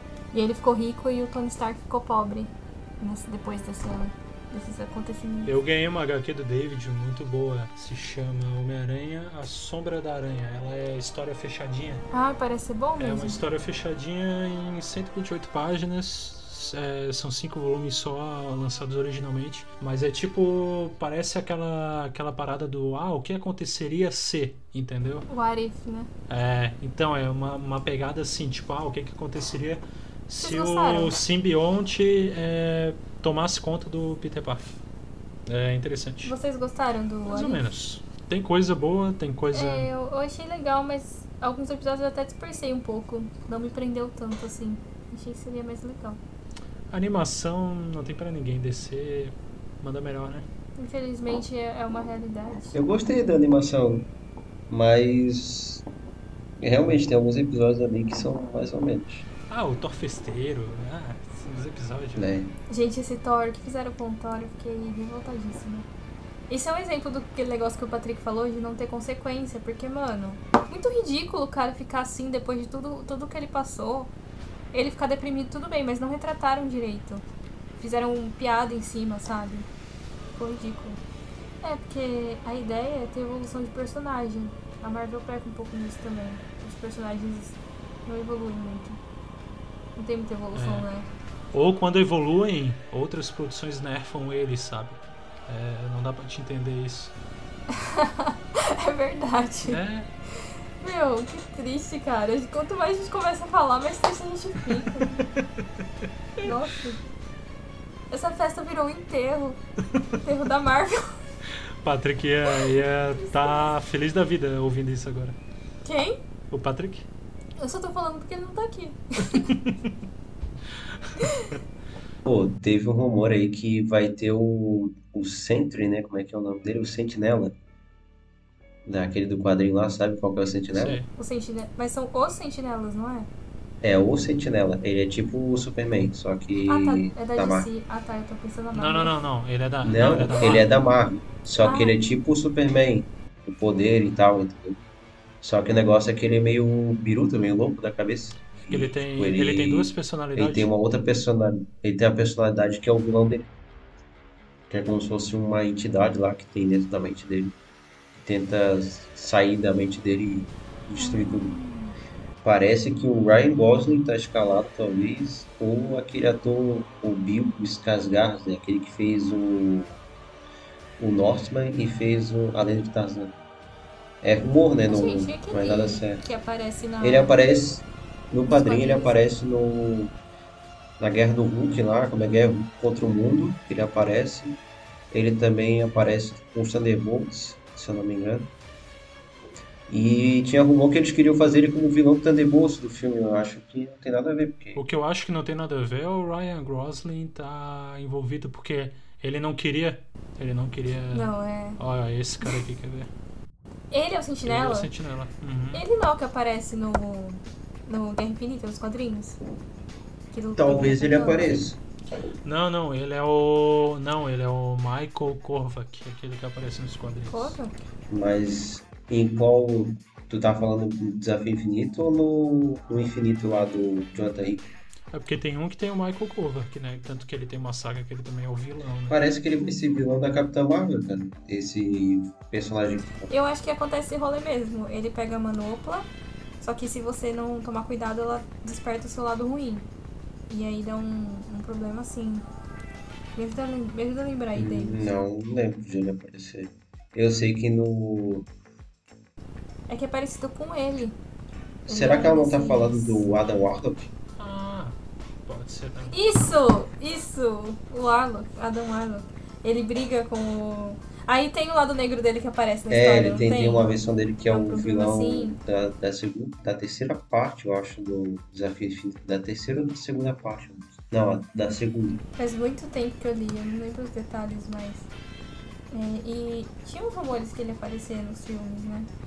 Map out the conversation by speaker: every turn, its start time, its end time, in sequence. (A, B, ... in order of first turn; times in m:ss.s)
0:00.3-0:05.6 A
0:05.5-0:12.0 B
0:12.1-0:13.4 A
0:13.0-0:25.3 B
0:25.3-0:26.1 A
0:26.3-0:34.8 B
0:30.4-0:31.2 A
0:35.5-0:36.3 B
0:36.2-0:37.7 A
0:37.2-0:39.9 B
0:39.5-0:46.2 A
0:46.9-0:50.5 B
0:50.8-0:52.8 A
0:52.7-0:54.1 C
0:54.7-0:55.8 C
0:56.6-0:59.3 C
0:59.5-1:02.3 B
1:02.2-1:02.5 C
1:02.7-1:05.9 A
1:06.5-1:14.1 A
1:14.7-1:17.2 A
1:17.8-1:19.7 A
1:20.4-1:21.0 A
1:21.6-1:29.0 A
1:30.0-1:31.1 A
1:30.5-1:30.9 B
1:31.5-1:37.1 B
1:37.7-1:39.8 A
1:39.6-1:40.1 B
1:40.8-1:45.2 A
1:45.0-1:45.5 B
1:46.4-1:47.0 A
1:48.1-1:49.6 A
1:50.2-1:51.2 A
1:51.8-1:55.4 B
1:52.5-1:53.8 A
1:55.8-1:56.2 A
1:56.5-1:57.1 B
1:57.6-1:59.5 A
2:01.2-2:01.5 A
2:02.2-2:07.5 C
2:08.9-2:11.0 C
2:10.7-2:11.1 B
2:11.1-2:13.3 A
2:13.8-2:17.7 C
2:16.6-2:19.2 A
2:18.7-2:20.7 B
2:19.8-2:24.8 C
2:21.6-2:22.0 A
2:25.4-2:33.5 C
2:28.7-2:30.7 B
2:34.7-2:37.5 C
2:38.2-2:41.6 C
2:41.0-2:41.9 A
2:42.4-2:50.0 C
2:51.0-2:53.3 C
2:54.2-2:56.2 C
2:54.9-2:57.4 A
2:57.0-3:00.1 C
2:58.5-2:59.2 A
3:01.0-3:04.6 C
3:05.1-3:08.5 C
3:09.9-3:14.8 C
3:14.8-3:23.1 B
3:21.1-3:21.8 A
3:23.9-3:24.9 A
3:24.5-3:25.8 B
3:25.7-3:29.4 A
3:30.3-3:31.6 A
3:30.6-3:31.8 C
3:32.4-3:37.6 B
3:37.3-3:37.8 A
3:38.1-3:44.6 C
3:45.1-3:49.2 B
3:49.1-3:53.3 C
3:53.3-3:56.1 A
3:56.6-3:59.9 A
4:00.5-4:02.5 A
4:03.4-4:05.1 A
4:04.6-4:08.5 C
4:09.9-4:11.2 A
4:11.9-4:14.1 C
4:11.9-4:13.3 A
4:14.4-4:16.1 B
4:16.1-4:23.9 A
4:22.9-4:32.2 C
4:24.5-4:25.6 A
4:32.4-4:35.1 A
4:35.9-4:39.1 A